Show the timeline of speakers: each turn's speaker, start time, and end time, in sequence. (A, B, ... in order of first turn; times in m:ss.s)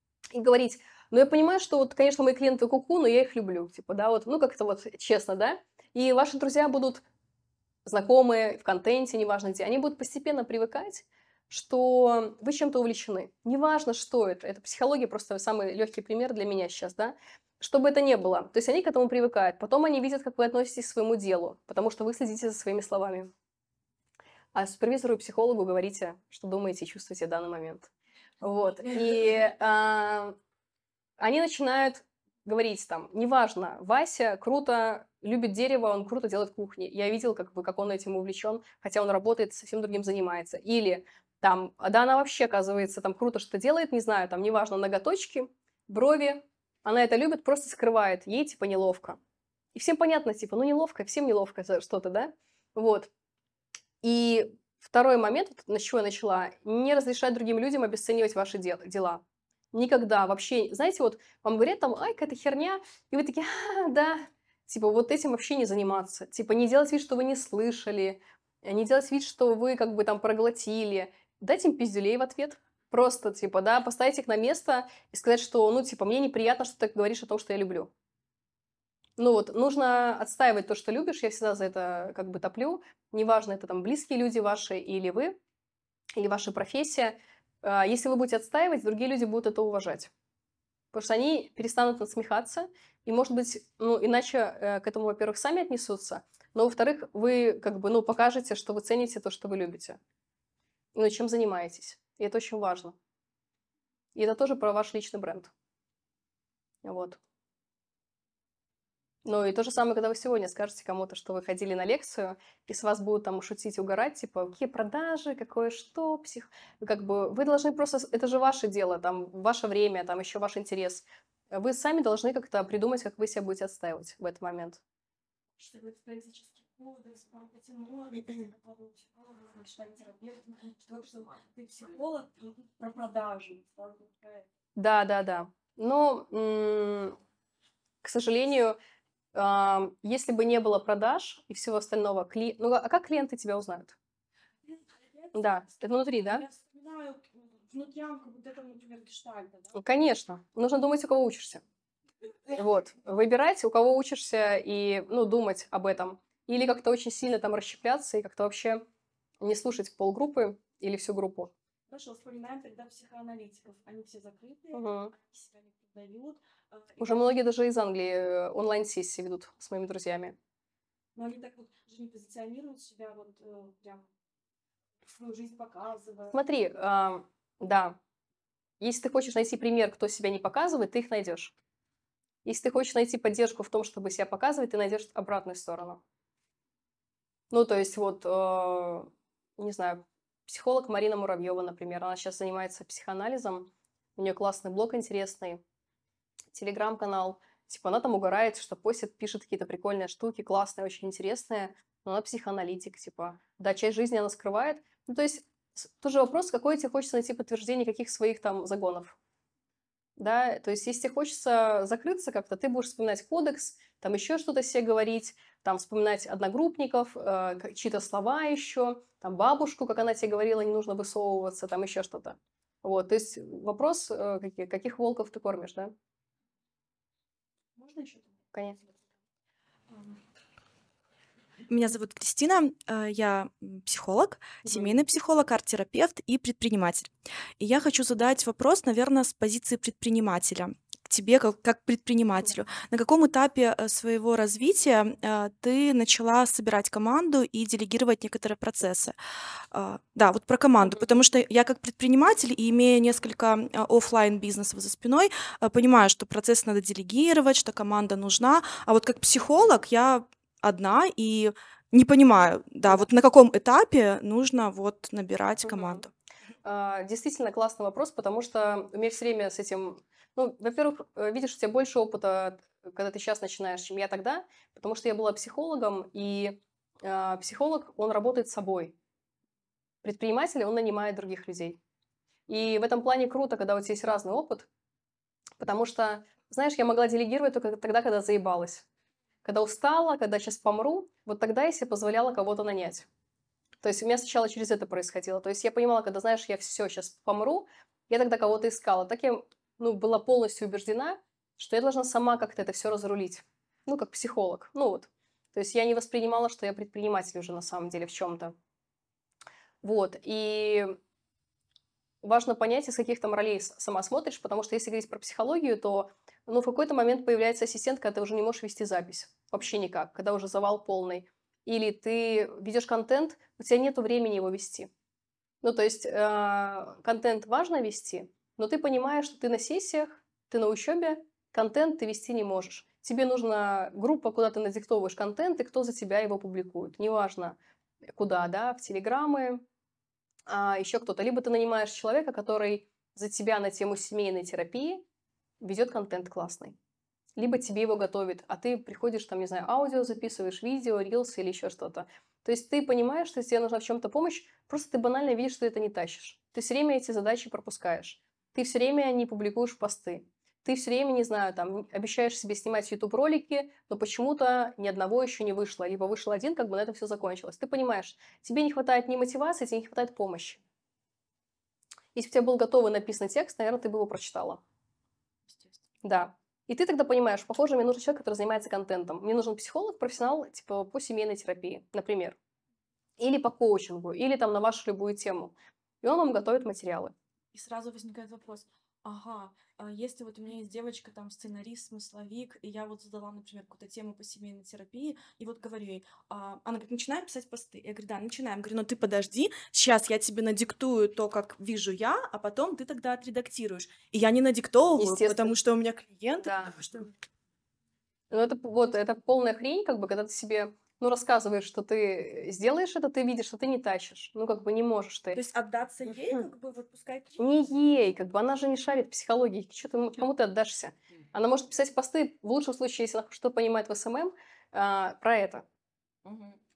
0:00.3-0:07.0 A
0:07.9-0:23.3 A
0:24.6-0:27.9 A
0:28.4-0:30.4 A
0:31.2-0:49.2 A
0:49.8-0:53.1 A
0:54.0-0:59.2 A
0:59.7-1:17.9 A
1:19.2-1:25.4 A
1:26.2-1:30.1 A
1:30.9-1:40.0 A
1:41.0-1:43.0 A
1:44.2-1:45.5 A
1:46.8-1:47.2 A
1:49.3-2:04.8 A
2:05.6-2:14.4 B
2:14.8-2:17.2 A
2:18.0-2:18.8 A
2:19.4-2:24.0 A
2:24.6-2:29.8 B
2:25.3-2:26.4 A
2:29.7-2:31.6 A
2:32.6-2:38.8 A
2:39.4-2:41.5 A
2:41.9-2:47.4 B
2:44.7-2:45.1 A
2:47.0-2:50.4 A
2:51.2-2:54.1 B
2:55.1-2:56.4 B
2:56.3-2:58.0 A
2:58.8-3:01.5 A
3:02.5-3:06.0 A
3:07.5-3:15.6 A
3:16.5-3:29.2 A
3:30.2-3:45.9 A
3:47.8-3:48.9 B
3:51.7-4:09.2 C
3:54.6-3:54.9 A
4:09.7-4:26.1 C
4:25.6-4:26.0 A
4:26.6-4:39.0 A
4:40.0-4:41.8 A
4:42.5-4:44.7 A
4:45.6-4:48.8 A
4:49.4-4:53.1 A
4:53.8-5:08.6 A
5:09.8-5:11.0 A
5:12.2-5:24.9 A
5:25.6-5:37.6 A
5:38.2-5:39.6 A
5:40.5-5:45.0 A
5:45.6-5:46.8 A
5:47.4-6:10.6 A
6:12.2-6:14.6 A
6:15.5-6:15.8 B
6:16.0-6:22.4 A
6:23.2-6:27.1 A
6:27.5-6:47.0 B
6:45.0-6:45.5 A
6:46.4-6:46.8 A
6:48.3-6:55.4 A
6:55.3-6:57.5 B
6:57.4-7:05.6 A
7:06.3-7:06.6 B